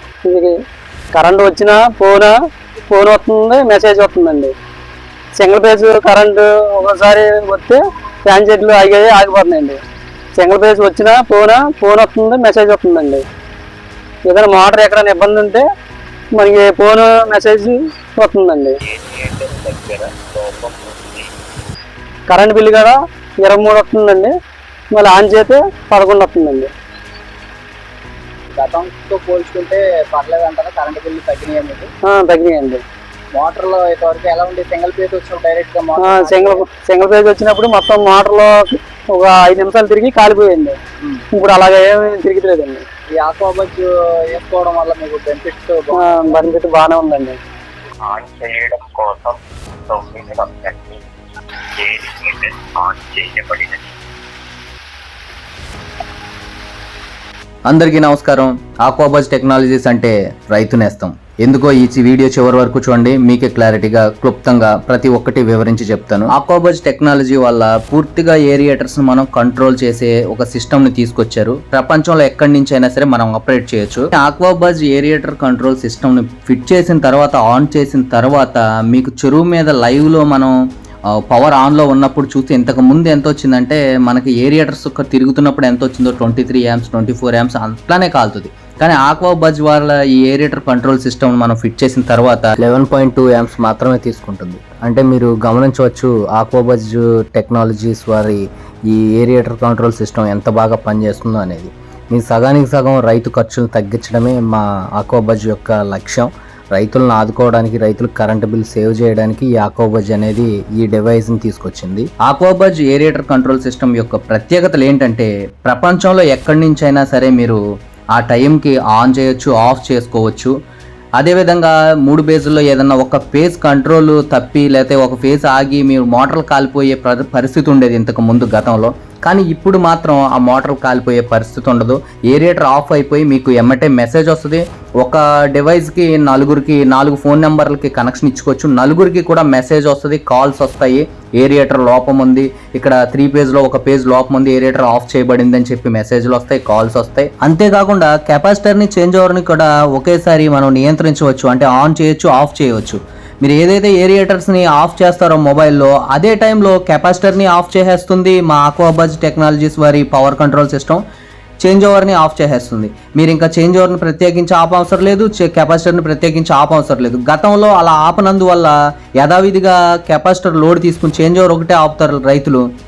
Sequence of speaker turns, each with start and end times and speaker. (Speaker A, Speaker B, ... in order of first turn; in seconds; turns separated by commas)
Speaker A: 0.2-0.6, Speaker A: 1.1-2.3, Speaker A: 2.9-4.5, Speaker A: 5.4-9.8, Speaker A: 10.4-13.2, Speaker A: 14.3-15.7, Speaker A: 16.4-18.8, Speaker B: 18.8-21.3, Speaker A: 22.3-24.3, Speaker A: 24.9-26.7, Speaker C: 28.5-31.9, Speaker A: 32.0-32.8, Speaker C: 33.4-36.6, Speaker A: 36.0-40.8, Speaker A: 41.4-42.8, Speaker C: 43.2-46.4, Speaker A: 46.0-47.4, Speaker B: 48.0-49.4, Speaker B: 49.9-51.0, Speaker B: 51.8-53.9, Speaker D: 57.7-80.5, Speaker D: 81.3-117.6, Speaker D: 118.2-120.5, Speaker D: 121.2-161.0, Speaker D: 161.6-172.6